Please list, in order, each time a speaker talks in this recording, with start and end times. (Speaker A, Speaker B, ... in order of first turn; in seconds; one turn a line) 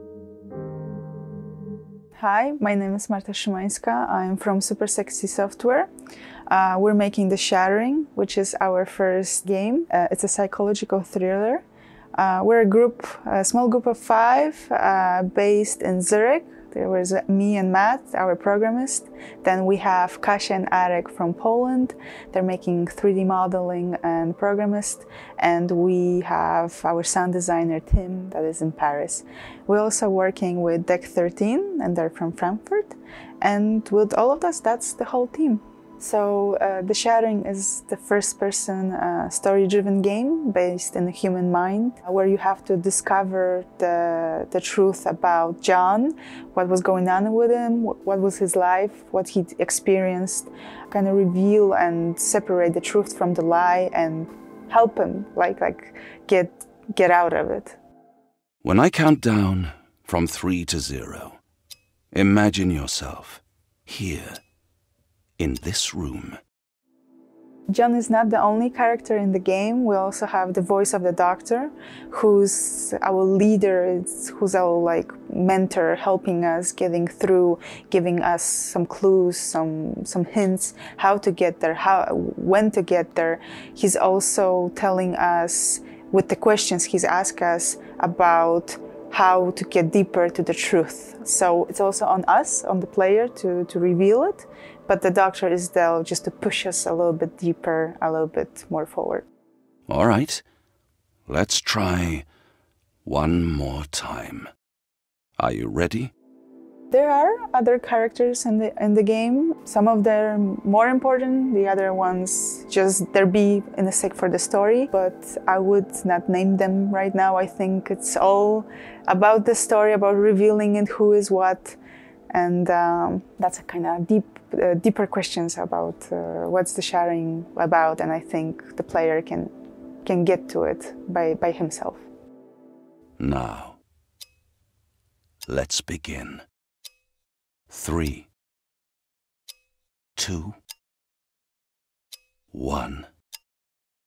Speaker A: 2.1-5.9
Speaker A: 6.5-11.6
Speaker A: 12.2-57.8
Speaker B: 58.6-61.4
Speaker B: 62.1-64.4
Speaker B: 65.4-66.4
Speaker A: 67.7-99.3
Speaker B: 99.9-100.4
Speaker B: 101.3-102.3
Speaker B: 103.0-104.5
Speaker B: 105.4-106.1
Speaker A: 106.9-121.8
Speaker A: 122.3-129.5
Speaker A: 130.0-132.1
Speaker B: 133.2-133.8
Speaker B: 135.5-136.4
Speaker B: 137.7-138.3
Speaker B: 140.2-140.6
Speaker B: 142.5-143.1